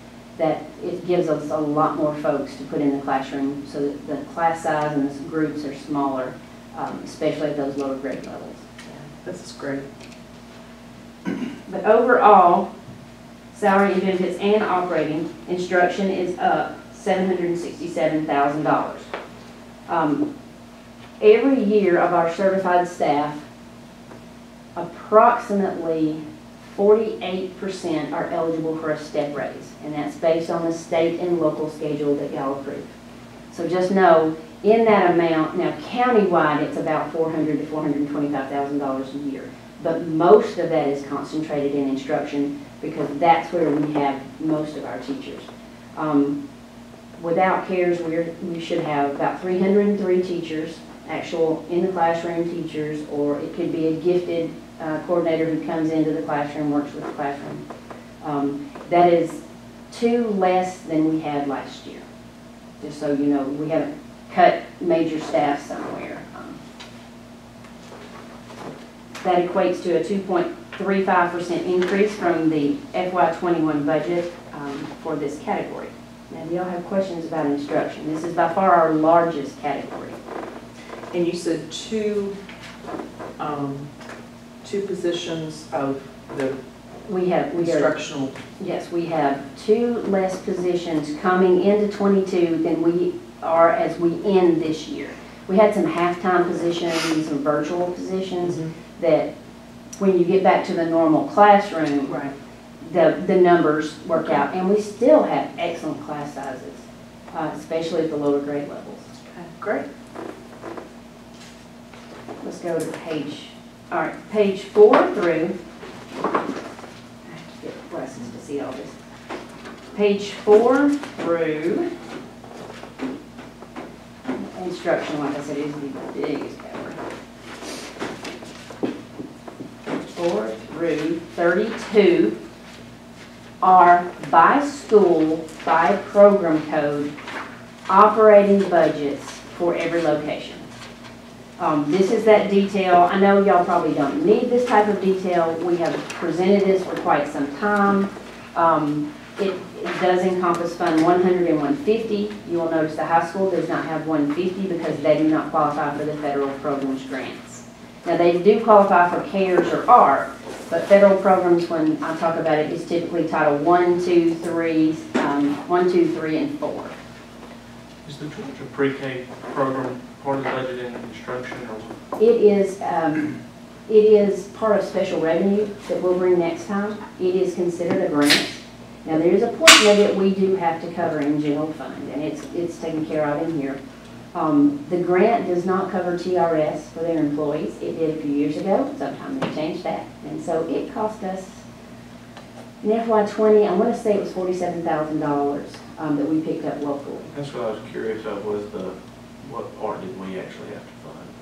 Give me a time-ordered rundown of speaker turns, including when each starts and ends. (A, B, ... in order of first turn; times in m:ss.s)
0:00.4-0:08.6 A
0:08.9-0:09.9 B
0:11.6-0:12.7 A
0:13.5-0:19.1 A
0:19.9-0:20.2 A
0:21.2-0:23.4 A
0:24.8-0:32.8 A
0:33.5-0:46.4 A
0:47.2-0:57.6 A
0:58.2-1:02.0 A
1:02.8-1:06.6 A
1:09.2-1:20.2 A
1:21.1-1:22.4 B
1:23.4-1:23.9 B
1:24.6-1:26.6 B
1:27.1-1:27.9 A
1:27.6-1:28.4 B
1:28.6-1:39.3 A
1:38.4-1:38.7 B
1:40.0-1:42.2 A
1:42.1-1:42.3 B
1:42.8-1:49.1 A
1:49.3-1:49.8 B
1:52.4-1:55.6 A
1:57.3-1:59.0 A
1:59.9-2:01.9 A
2:04.2-2:07.0 A
2:10.2-2:12.4 A
2:13.6-2:17.1 A
2:17.9-2:20.6 A
2:21.6-2:46.9 A
2:48.0-2:51.9 C
2:52.2-2:53.3 A
2:53.9-3:03.8 A
3:04.3-3:11.6 A
3:12.8-3:17.3 A
3:17.3-3:21.3 C